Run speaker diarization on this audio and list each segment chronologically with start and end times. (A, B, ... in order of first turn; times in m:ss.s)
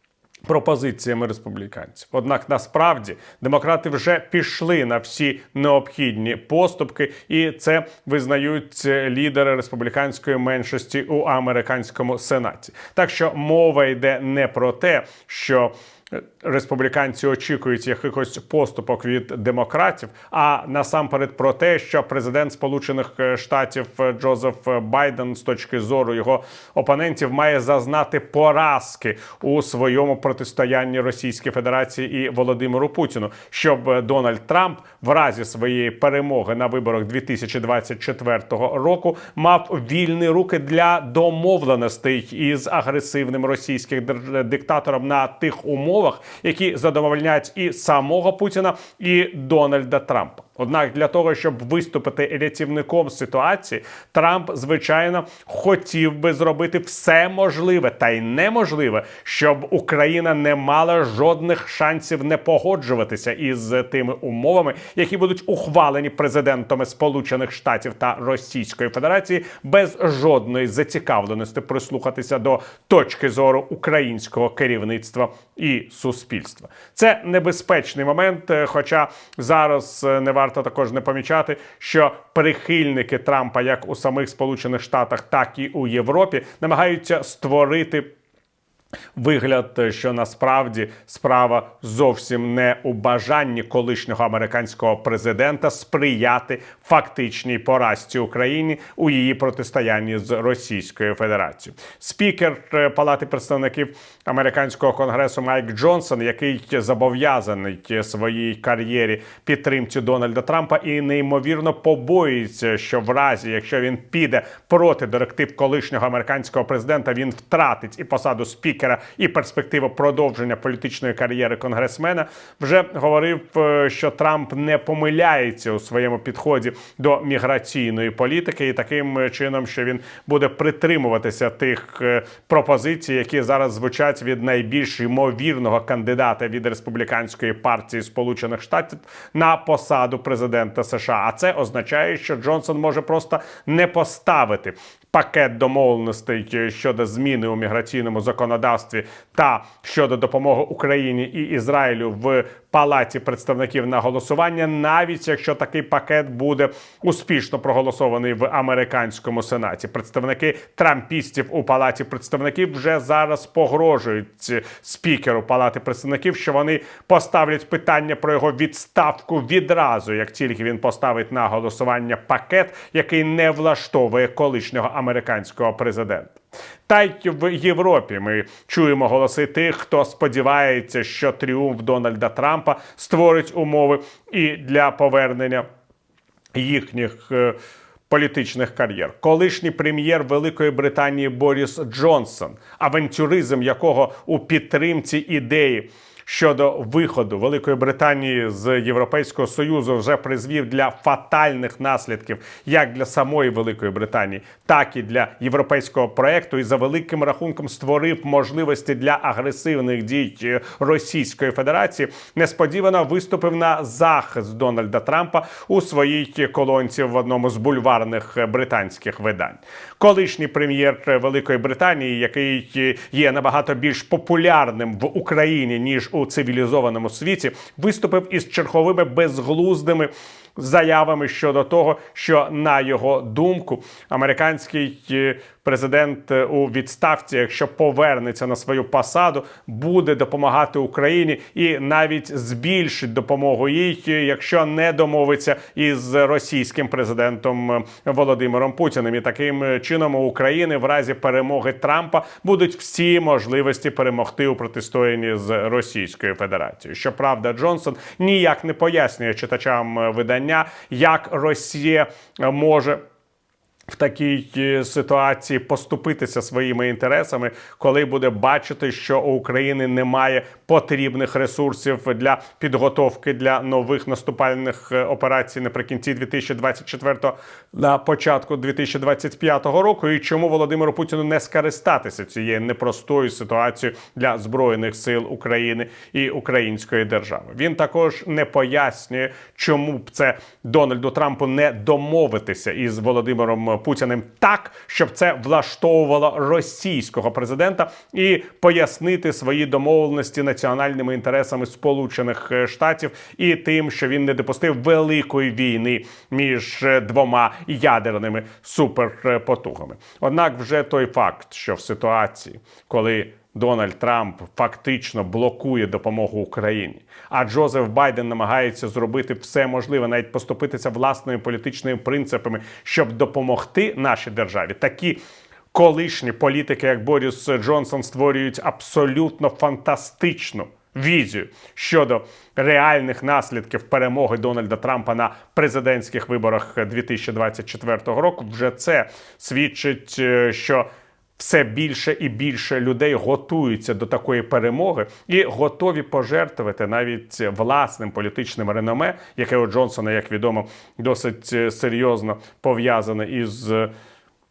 0:00.5-1:28.1 A
1:29.2-3:05.6 A
3:06.6-3:07.6 A
3:08.1-4:23.0 A
4:23.9-5:25.2 A
5:25.7-5:40.9 A
5:41.4-5:53.9 A